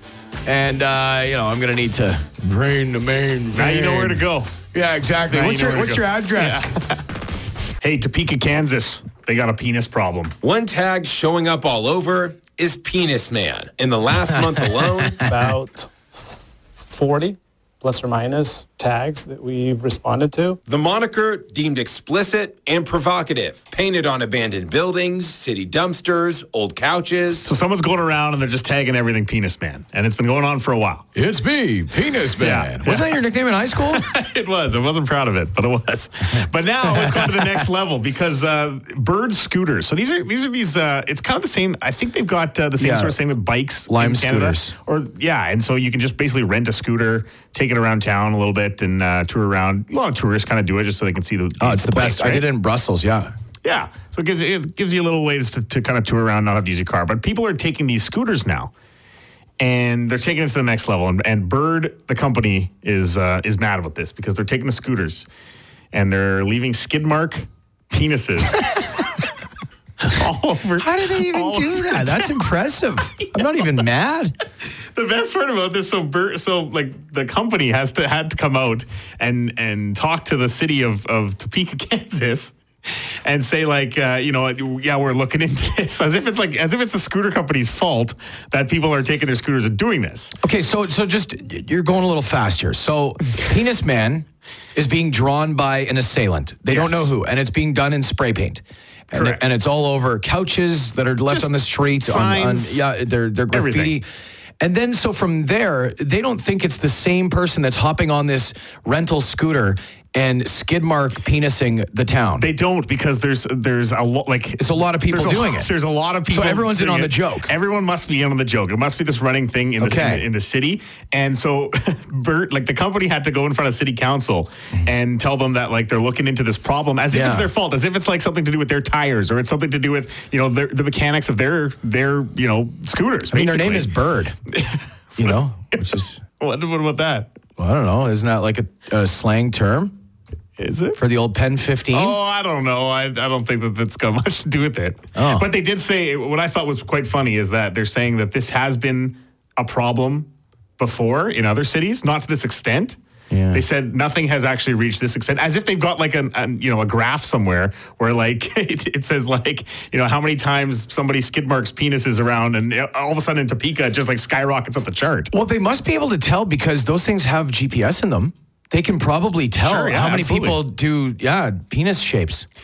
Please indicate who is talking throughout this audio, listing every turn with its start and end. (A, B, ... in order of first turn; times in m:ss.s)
0:00.4-0:06.7 A
0:03.5-0:04.5 B
0:05.3-0:07.0 B
0:07.8-0:10.4 B
0:10.4-0:15.2 C
0:15.2-0:20.6 D
0:20.7-0:27.5 C
0:27.4-0:31.0 B
0:31.1-0:34.0 A
0:32.4-0:33.2 B
0:33.8-0:52.5 B
0:36.8-0:37.6 A
0:42.8-0:43.2 A
0:43.9-0:44.7 A
0:51.6-0:53.3 A
0:53.6-0:58.7 B
0:59.6-1:05.3 B
1:05.9-1:08.8 B
1:10.0-1:12.5 B
1:10.8-1:14.3 A
1:13.3-1:13.6 B
1:14.6-1:30.3 B
1:30.4-1:44.0 A
1:36.7-1:37.1 B
1:39.1-1:39.5 B
1:41.3-1:42.8 B
1:43.5-1:43.9 B
1:44.6-1:52.5 A
1:52.4-2:13.9 B
1:54.6-1:55.7 A
1:56.3-1:57.5 A
1:59.8-2:00.2 A
2:07.1-2:07.5 A
2:13.3-2:14.4 A
2:14.5-2:17.3 B
2:15.2-2:16.2 A
2:17.6-2:20.0 A
2:20.6-2:21.0 B
2:21.0-2:22.2 A
2:21.9-2:33.0 B
2:25.2-2:25.5 A
2:33.3-2:33.6 A
2:33.5-2:45.3 B
2:45.3-2:52.5 A
2:49.6-2:50.6 B